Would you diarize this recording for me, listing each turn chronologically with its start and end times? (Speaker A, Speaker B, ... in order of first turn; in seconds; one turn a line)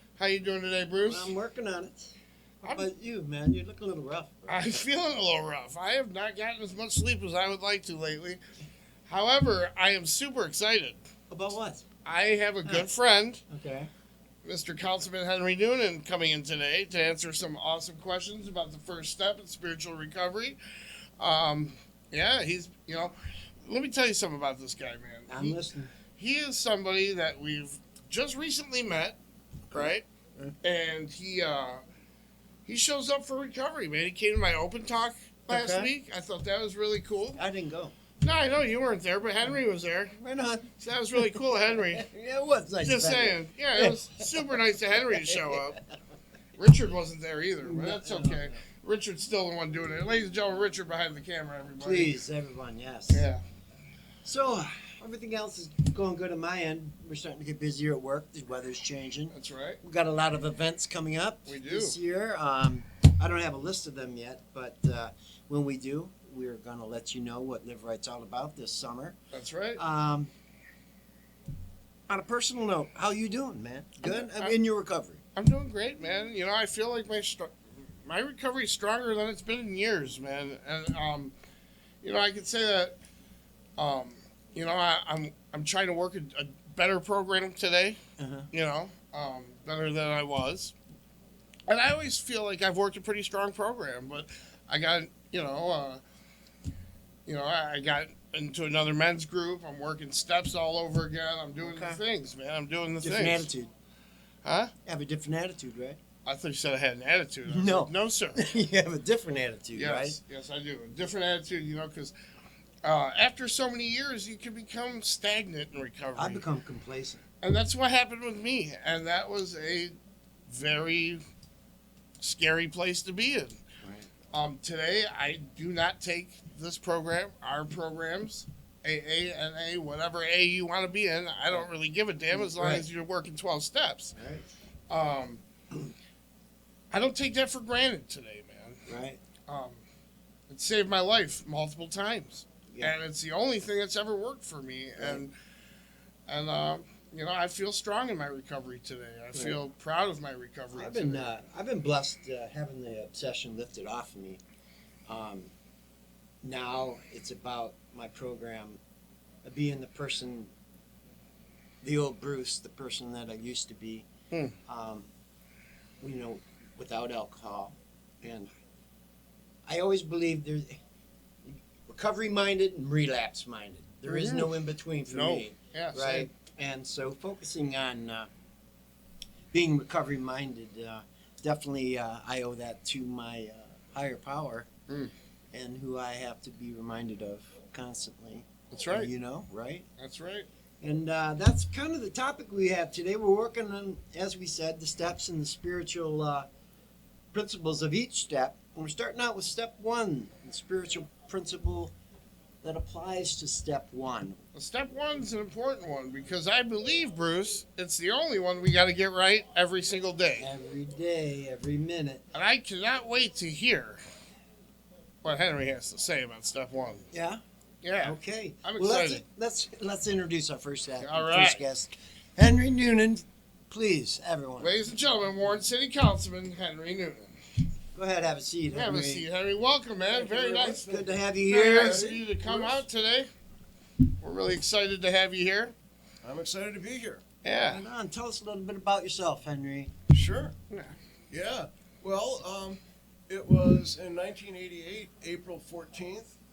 Speaker A: 0.2-1.3
Speaker B: 1.1-4.6
Speaker A: 2.6-2.9
Speaker A: 4.5-8.4
Speaker A: 9.1-11.0
Speaker B: 11.3-11.8
Speaker A: 12.0-13.4
Speaker B: 12.6-12.9
Speaker B: 13.5-13.9
Speaker A: 14.4-20.6
Speaker A: 21.2-25.6
Speaker B: 25.3-25.9
Speaker A: 26.1-29.2
Speaker B: 29.7-30.5
Speaker A: 29.7-30.1
Speaker A: 30.6-31.8
Speaker A: 32.6-37.4
Speaker B: 35.5-35.9
Speaker B: 37.4-37.9
Speaker A: 38.2-40.1
Speaker B: 40.1-44.4
Speaker A: 40.8-42.0
Speaker A: 42.8-45.8
Speaker B: 45.1-45.6
Speaker A: 46.6-52.1
Speaker B: 47.6-48.6
Speaker B: 51.8-53.3
Speaker A: 53.1-53.4
Speaker B: 54.2-69.2
Speaker A: 59.3-59.8
Speaker A: 61.5-62.0
Speaker A: 69.3-69.8
Speaker B: 69.8-70.3
Speaker B: 72.1-75.2
Speaker A: 74.0-74.5
Speaker A: 75.3-81.3
Speaker A: 82.0-82.9
Speaker A: 83.8-88.0
Speaker B: 88.2-88.5
Speaker A: 88.5-90.7
Speaker A: 91.7-96.0
Speaker A: 97.2-103.5
Speaker B: 101.6-102.0
Speaker B: 103.0-103.7
Speaker A: 104.4-104.7
Speaker B: 104.8-106.0
Speaker A: 106.2-108.4
Speaker B: 107.5-110.2
Speaker A: 109.7-112.1
Speaker A: 112.8-116.4
Speaker B: 116.1-117.2
Speaker A: 117.4-119.9
Speaker A: 120.5-121.2
Speaker A: 122.2-123.6
Speaker B: 123.8-124.1
Speaker A: 124.3-134.1
Speaker B: 132.3-132.9
Speaker B: 134.2-134.5
Speaker A: 134.9-135.4
Speaker A: 136.9-138.9
Speaker B: 138.9-139.2
Speaker A: 139.5-139.8
Speaker A: 140.5-145.3
Speaker B: 145.0-145.2
Speaker A: 146.3-151.3
Speaker B: 149.3-149.6
Speaker B: 150.7-154.4
Speaker B: 155.1-155.5
Speaker B: 156.4-158.8
Speaker B: 159.4-160.5
Speaker B: 161.8-164.1
Speaker A: 164.3-164.6
Speaker B: 164.7-165.1
Speaker B: 166.0-168.5
Speaker B: 169.7-170.8
Speaker B: 171.4-178.3
Speaker A: 174.1-174.5
Speaker A: 175.1-176.3
Speaker B: 179.5-184.7
Speaker A: 184.9-185.1
Speaker B: 185.5-189.9
Speaker A: 188.7-189.1
Speaker A: 190.0-190.5
Speaker B: 190.8-196.5
Speaker B: 197.3-201.9
Speaker B: 202.6-204.4
Speaker A: 204.5-210.5
Speaker B: 210.4-212.2
Speaker A: 212.3-214.0
Speaker A: 215.2-217.0
Speaker B: 217.1-217.4
Speaker A: 217.8-219.2
Speaker B: 218.0-224.8
Speaker A: 221.0-221.6
Speaker A: 224.6-227.3
Speaker B: 227.9-229.3
Speaker A: 228.7-230.9
Speaker C: 230.1-231.1
Speaker B: 230.4-232.2
Speaker A: 231.4-233.3
Speaker C: 231.8-232.8
Speaker A: 234.2-235.7
Speaker C: 236.2-237.2
Speaker A: 237.4-237.8
Speaker B: 237.7-239.9
Speaker C: 240.1-240.5
Speaker A: 240.7-240.9
Speaker C: 241.3-246.3